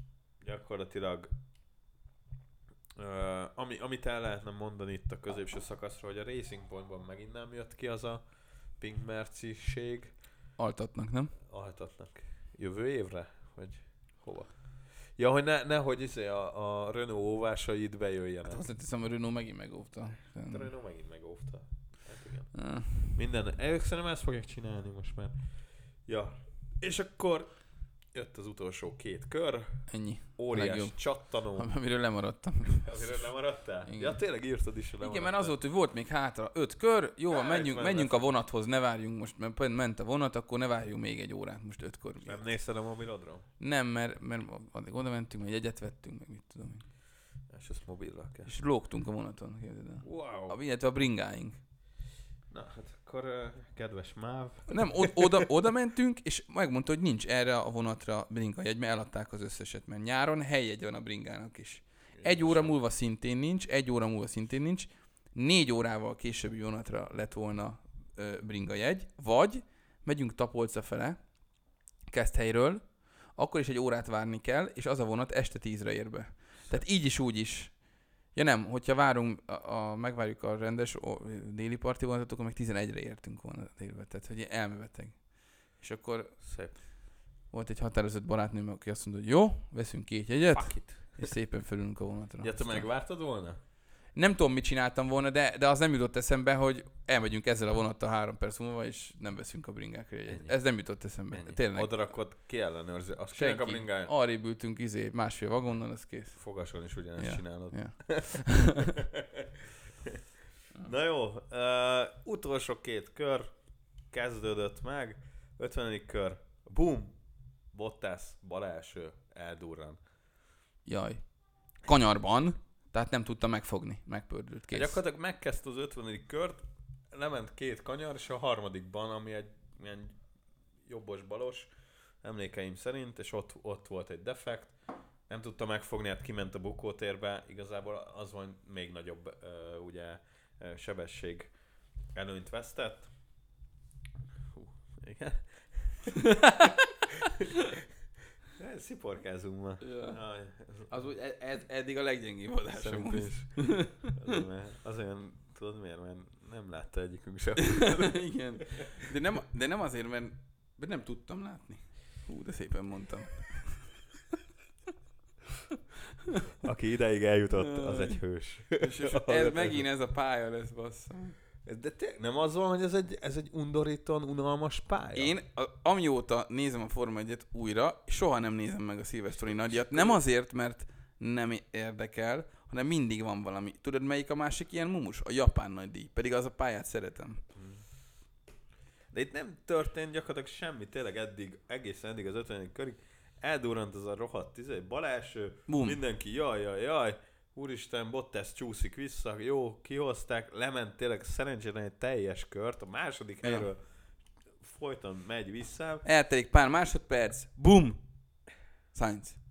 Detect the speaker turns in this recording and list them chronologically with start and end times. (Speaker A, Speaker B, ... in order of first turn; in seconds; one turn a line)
Speaker A: 0.4-1.3
Speaker A: 2.9-8.2
Speaker A: 8.8-10.1
Speaker B: 10.6-11.3
Speaker A: 11.4-14.5
Speaker A: 15.2-18.6
Speaker B: 18.4-20.7
Speaker A: 20.5-25.3
Speaker B: 22.5-23.1
Speaker A: 26.1-27.5
Speaker A: 28.1-31.7
Speaker B: 29.9-33.3
Speaker A: 32.7-35.5
Speaker B: 33.9-34.2
Speaker B: 35.0-42.4
Speaker A: 37.3-38.3
Speaker A: 42.2-43.4
Speaker B: 43.6-46.8
Speaker A: 47.5-48.5
Speaker B: 48.5-51.6
Speaker A: 50.0-50.5
Speaker A: 52.5-55.5
Speaker B: 54.7-71.2
Speaker A: 62.1-62.7
Speaker B: 72.1-72.8
Speaker B: 73.4-77.7
Speaker B: 78.3-85.2
Speaker B: 85.8-86.3
Speaker A: 86.4-86.8
Speaker B: 87.5-92.9
Speaker A: 90.5-91.3
Speaker A: 92.4-93.6
Speaker B: 94.2-102.0
Speaker A: 100.3-100.5
Speaker A: 101.3-104.1
Speaker B: 103.3-106.4
Speaker A: 106.3-110.2
Speaker B: 107.2-109.0
Speaker A: 110.8-113.5
Speaker A: 114.1-117.2
Speaker A: 117.7-120.0
Speaker B: 120.8-121.2
Speaker B: 121.8-125.0
Speaker A: 124.7-130.2
Speaker A: 130.8-131.7
Speaker A: 132.2-134.7
Speaker A: 135.3-141.5
Speaker A: 142.1-143.1
Speaker A: 144.5-146.2
Speaker B: 146.1-147.8
Speaker A: 147.1-147.5
Speaker A: 148.5-150.9
Speaker B: 149.8-150.2
Speaker B: 150.9-154.4
Speaker A: 152.7-158.2
Speaker B: 157.6-163.9
Speaker B: 166.2-166.5
Speaker A: 166.6-169.8
Speaker B: 167.6-168.2
Speaker B: 168.8-171.4
Speaker A: 171.6-175.3
Speaker B: 175.1-187.4
Speaker A: 179.4-180.2
Speaker A: 187.5-187.8
Speaker A: 189.1-203.8
Speaker B: 195.7-196.0
Speaker B: 203.4-203.7
Speaker A: 204.6-206.0
Speaker B: 206.0-208.0
Speaker B: 208.9-209.4